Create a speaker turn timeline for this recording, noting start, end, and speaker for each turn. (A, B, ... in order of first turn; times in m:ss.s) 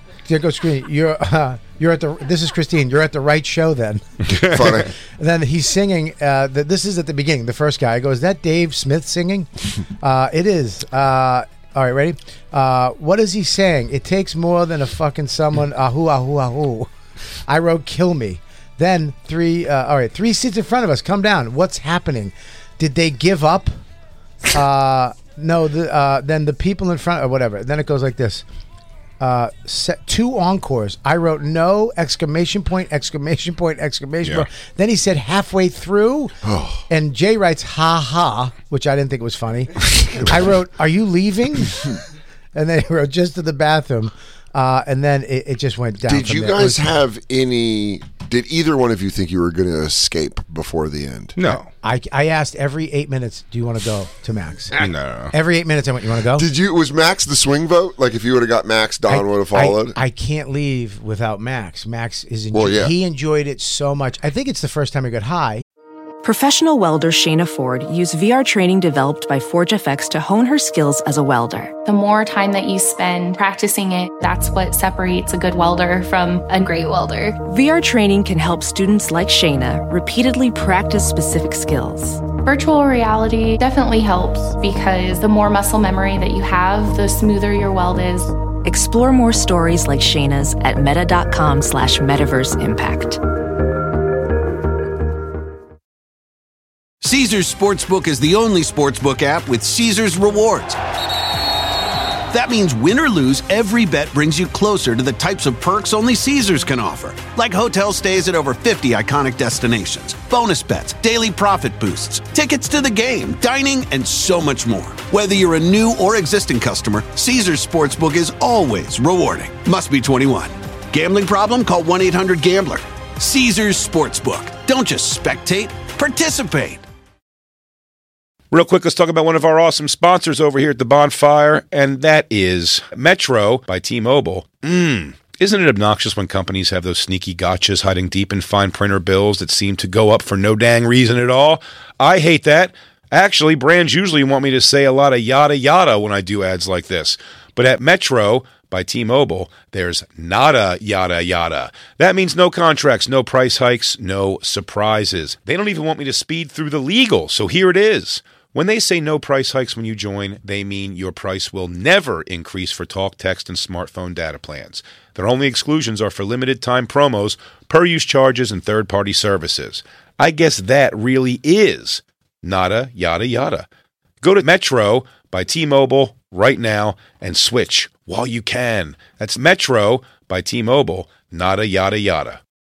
0:00.2-0:04.0 A
0:04.3-0:04.8 B
0:04.3-0:04.9 C
0:05.2-0:16.9 A
0:17.5-0:23.8 A
0:24.4-0:28.4 A
0:29.2-0:36.3 A
0:36.4-0:36.8 C
0:36.9-0:42.0 A
0:42.5-0:46.9 A
0:46.0-0:51.3 C
0:51.4-0:51.7 B
0:51.4-0:54.8 A
0:54.8-0:55.3 B
0:55.3-0:56.4 A
0:56.3-1:00.0 C
0:59.1-1:05.6 A
1:02.5-1:02.9 C
1:06.2-1:11.7 D
1:11.8-1:17.4 E
1:17.4-1:22.2 D
1:22.4-1:28.3 E
1:28.6-1:33.2 D
1:37.0-1:40.8 F
1:42.3-2:06.8 F
2:08.5-2:53.6 B
2:54.2-3:02.4 B